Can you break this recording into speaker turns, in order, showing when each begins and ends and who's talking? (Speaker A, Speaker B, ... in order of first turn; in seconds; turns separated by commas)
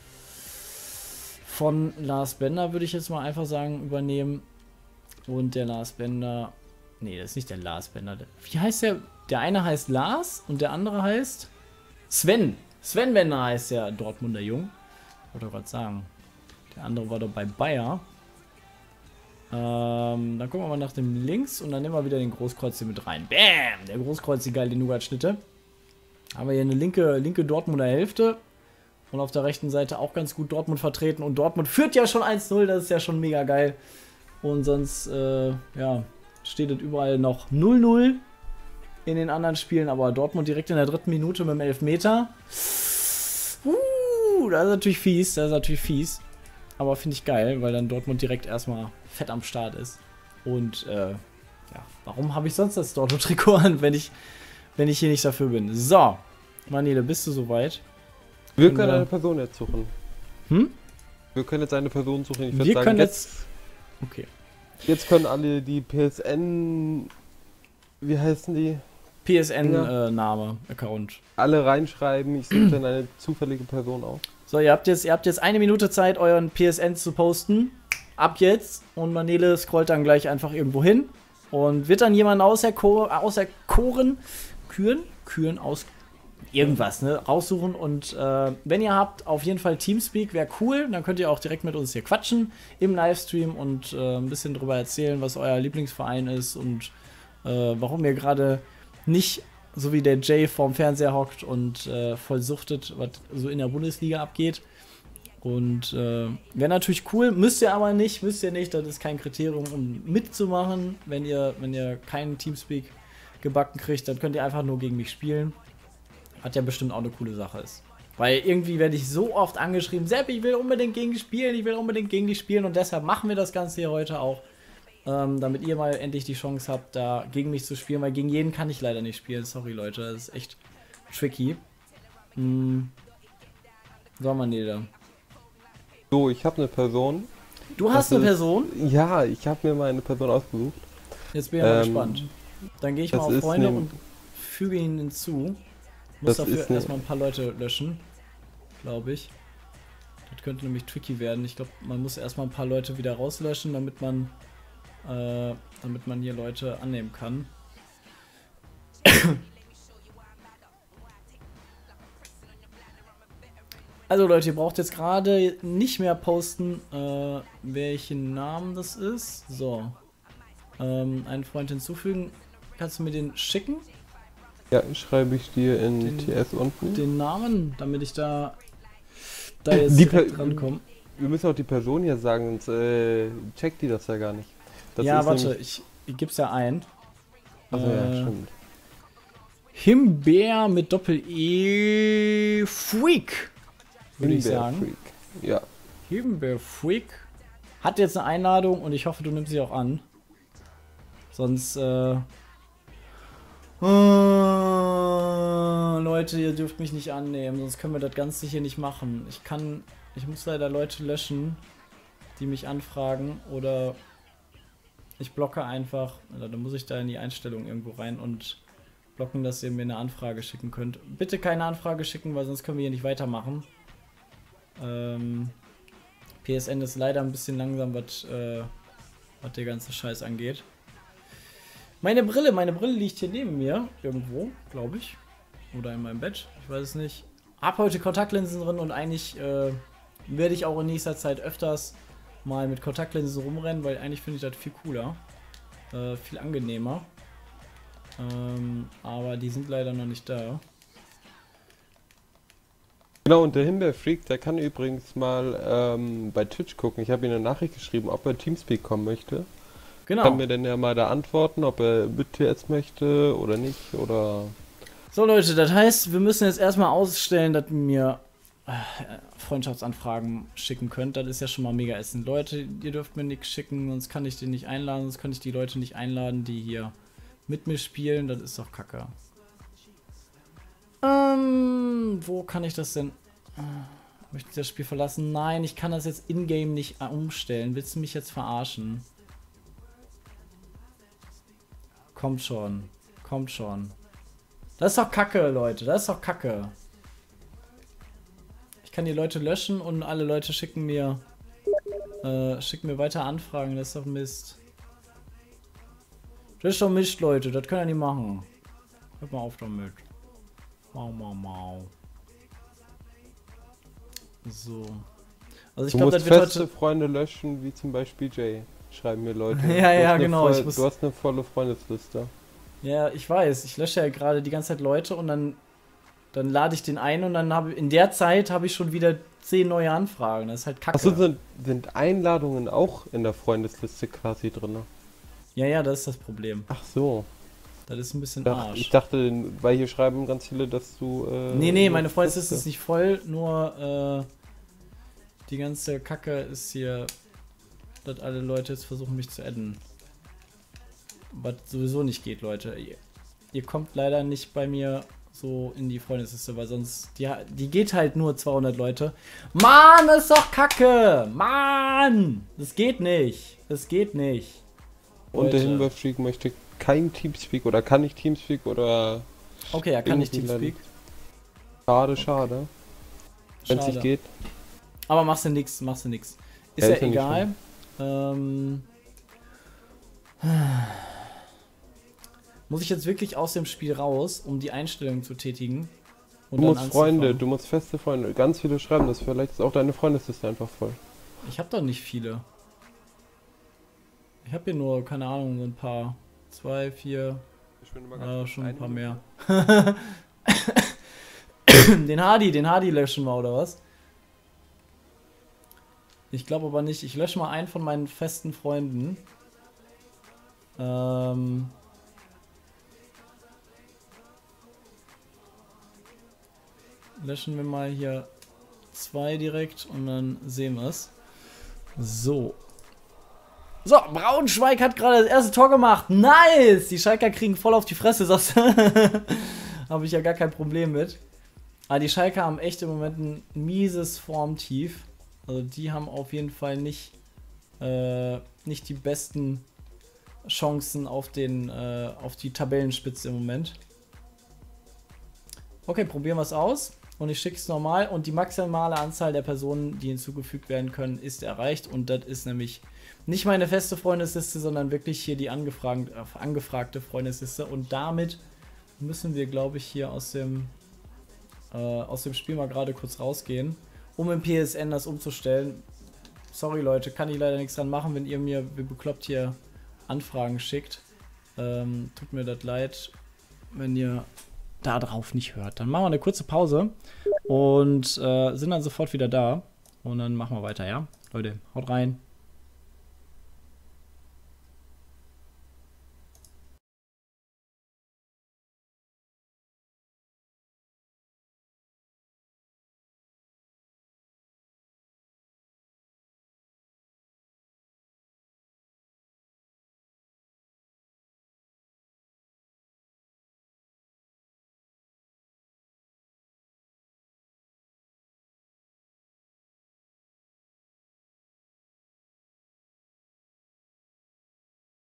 Speaker A: 1.4-4.5, Speaker A: 5.3-11.5, Speaker A: 12.1-14.7, Speaker A: 15.3-16.1, Speaker A: 16.7-18.0, Speaker A: 19.5-25.4, Speaker A: 26.3-28.4, Speaker A: 29.1-33.8, Speaker A: 34.4-38.2, Speaker A: 39.0-46.2, Speaker A: 46.8-54.1, Speaker A: 54.8-57.8, Speaker B: 58.6-59.9, Speaker A: 58.6-59.1, Speaker A: 60.5-60.7, Speaker B: 61.3-63.5, Speaker A: 62.5-63.3, Speaker A: 64.0-64.3, Speaker B: 64.8-67.1, Speaker B: 68.0-68.8, Speaker A: 69.2-71.2, Speaker B: 69.6-69.9, Speaker B: 71.4-74.2, Speaker A: 74.5-85.9, Speaker A: 86.5-96.9, Speaker A: 97.4-104.6, Speaker A: 105.4-115.5, Speaker A: 116.4-124.4, Speaker A: 125.0-131.6, Speaker A: 132.3-132.9, Speaker A: 134.2-134.9, Speaker B: 136.1-137.3, Speaker A: 137.8-138.7, Speaker B: 137.9-140.9, Speaker A: 141.3-145.6, Speaker B: 141.6-142.3, Speaker B: 143.1-143.9, Speaker A: 146.2-148.1, Speaker B: 146.2-147.0, Speaker A: 148.8-149.3, Speaker A: 150.3-154.3, Speaker A: 155.0-157.5, Speaker A: 159.0-159.4, Speaker A: 164.1-169.9, Speaker A: 170.8-173.8, Speaker B: 174.7-177.0, Speaker A: 176.0-176.4, Speaker A: 176.9-178.6, Speaker A: 179.6-180.8, Speaker B: 179.7-185.5, Speaker A: 185.0-186.9, Speaker A: 187.7-188.3, Speaker B: 187.7-188.5, Speaker A: 189.7-193.5, Speaker A: 194.2-194.9, Speaker B: 194.2-195.7, Speaker A: 196.1-197.3, Speaker A: 197.8-200.0, Speaker A: 201.3-202.2, Speaker A: 203.8-211.6, Speaker A: 212.3-214.0, Speaker A: 215.2-218.6, Speaker A: 219.2-223.7, Speaker A: 224.8-225.6, Speaker A: 226.4-228.7, Speaker A: 229.4-230.7, Speaker A: 232.0-235.2, Speaker A: 235.7-245.2, Speaker A: 245.9-247.1, Speaker A: 248.2-250.6, Speaker B: 253.2-259.5, Speaker A: 260.1-260.4, Speaker B: 260.2-264.6, Speaker A: 265.1-276.9, Speaker A: 277.5-279.1, Speaker A: 281.0-289.1, Speaker A: 292.1-293.9, Speaker A: 294.8-296.7, Speaker A: 298.8-301.2, Speaker A: 302.2-304.6, Speaker A: 306.6-308.5, Speaker A: 309.2-310.0, Speaker A: 310.9-311.9, Speaker A: 314.4-315.1, Speaker A: 315.8-316.7, Speaker B: 315.9-322.3, Speaker A: 319.5-320.8, Speaker A: 322.8-325.6, Speaker A: 326.3-331.2, Speaker B: 330.9-334.9, Speaker A: 335.5-336.7, Speaker B: 336.7-337.3, Speaker A: 337.9-338.9, Speaker B: 338.4-342.6, Speaker A: 341.5-344.3, Speaker A: 345.5-347.1, Speaker A: 348.0-349.8, Speaker A: 351.3-353.0, Speaker A: 353.5-364.6, Speaker A: 365.3-365.9, Speaker B: 365.3-369.3, Speaker A: 369.7-370.8, Speaker B: 370.0-370.8, Speaker B: 371.9-372.7, Speaker A: 373.6-374.1, Speaker B: 373.7-374.3, Speaker A: 375.1-378.9, Speaker B: 376.8-377.4, Speaker A: 380.4-381.3, Speaker A: 382.7-385.9, Speaker A: 386.5-387.4, Speaker B: 386.6-391.0, Speaker A: 391.4-392.4, Speaker A: 394.4-397.4, Speaker B: 397.8-399.2, Speaker A: 398.1-400.9, Speaker A: 401.7-403.8, Speaker A: 406.3-409.2, Speaker A: 410.8-411.7, Speaker A: 417.2-418.3, Speaker A: 418.9-421.1, Speaker A: 422.0-422.6, Speaker A: 423.8-431.2, Speaker A: 431.9-437.1, Speaker A: 437.8-439.6, Speaker A: 440.4-443.8, Speaker A: 445.9-458.4, Speaker A: 459.0-460.7, Speaker A: 461.7-465.8, Speaker A: 466.5-469.5, Speaker A: 470.1-471.0, Speaker A: 471.6-473.1, Speaker A: 473.7-474.3, Speaker A: 474.8-476.9, Speaker A: 477.5-482.2